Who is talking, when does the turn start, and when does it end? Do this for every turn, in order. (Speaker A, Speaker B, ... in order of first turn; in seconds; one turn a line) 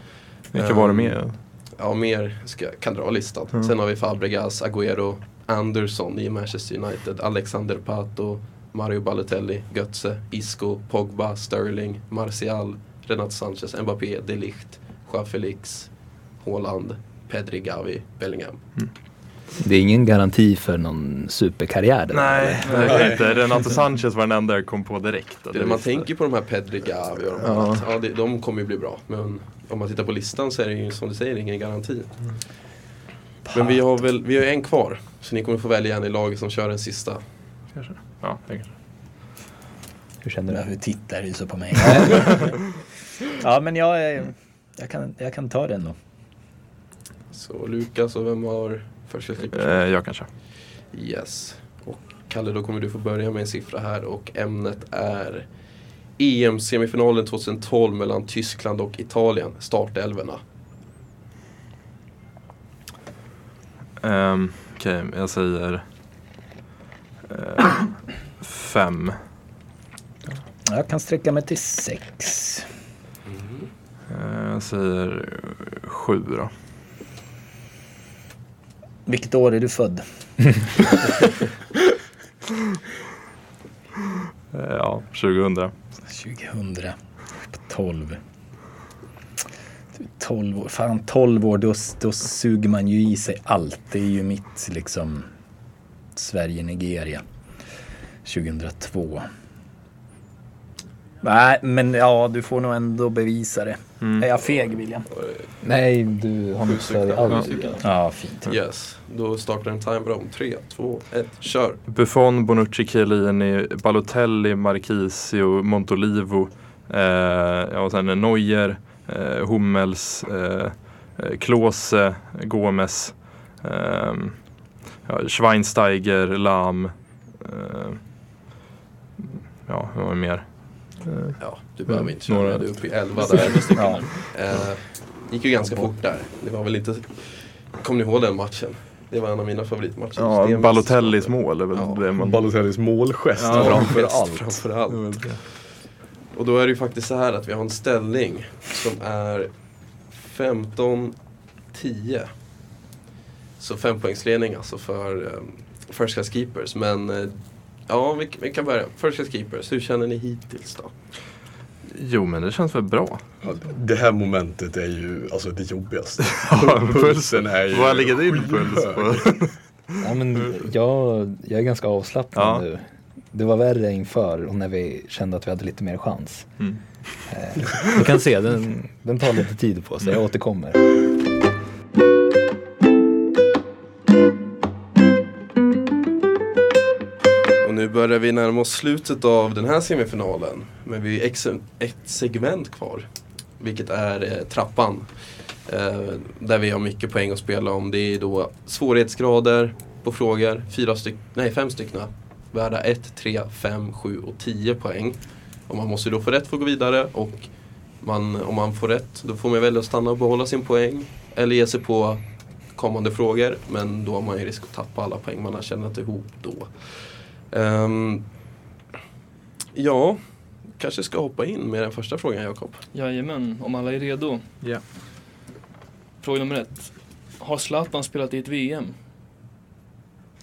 Speaker A: 0.5-1.4
Speaker B: 0.5-18.6
Speaker C: 19.6-23.0
Speaker A: 22.1-26.1
Speaker D: 22.6-23.8
Speaker B: 22.7-23.1
Speaker E: 22.9-23.2
Speaker B: 25.5-32.2
Speaker A: 27.4-27.9
Speaker B: 33.5-37.2
Speaker A: 37.7-38.7
Speaker C: 40.2-40.6
Speaker F: 40.5-42.6
Speaker F: 43.4-46.0
Speaker B: 47.3-49.8
Speaker A: 49.5-50.3
Speaker B: 50.9-55.5
Speaker B: 56.2-60.4
Speaker A: 64.0-65.8
Speaker A: 67.3-69.2
Speaker F: 70.7-72.7
Speaker B: 73.3-73.7
Speaker A: 74.1-76.5
Speaker F: 79.1-81.1
Speaker A: 84.5-85.7
Speaker F: 86.1-87.0
Speaker F: 87.5-88.2
Speaker F: 90.0-95.3
Speaker F: 96.1-97.2
Speaker F: 98.2-99.3
Speaker F: 101.2-105.1
Speaker A: 104.0-104.3
Speaker B: 105.1-105.5
Speaker C: 105.6-107.8
Speaker B: 106.6-111.8
Speaker F: 107.8-108.6
Speaker A: 111.9-124.4
Speaker A: 125.0-128.0
Speaker A: 129.7-132.8
Speaker B: 131.4-142.1
Speaker D: 133.2-134.2
Speaker F: 133.7-134.1
Speaker A: 140.2-142.5
Speaker E: 142.2-144.6
Speaker A: 143.3-144.0
Speaker B: 143.5-145.6
Speaker A: 144.9-145.4
Speaker B: 146.3-149.5
Speaker B: 150.1-151.1
Speaker B: 151.7-152.3
Speaker B: 153.6-160.9
Speaker A: 161.9-163.2
Speaker E: 163.4-169.4
Speaker A: 166.2-170.0
Speaker C: 170.0-176.5
Speaker A: 172.3-172.6
Speaker C: 177.3-181.0
Speaker B: 187.6-193.1
Speaker B: 193.6-195.1
Speaker B: 195.7-205.2
Speaker B: 205.7-207.5
Speaker B: 208.0-212.2
Speaker B: 212.7-217.0
Speaker B: 217.5-218.2
Speaker B: 219.7-220.2
Speaker B: 220.8-222.8
Speaker D: 222.9-224.5
Speaker D: 226.2-228.9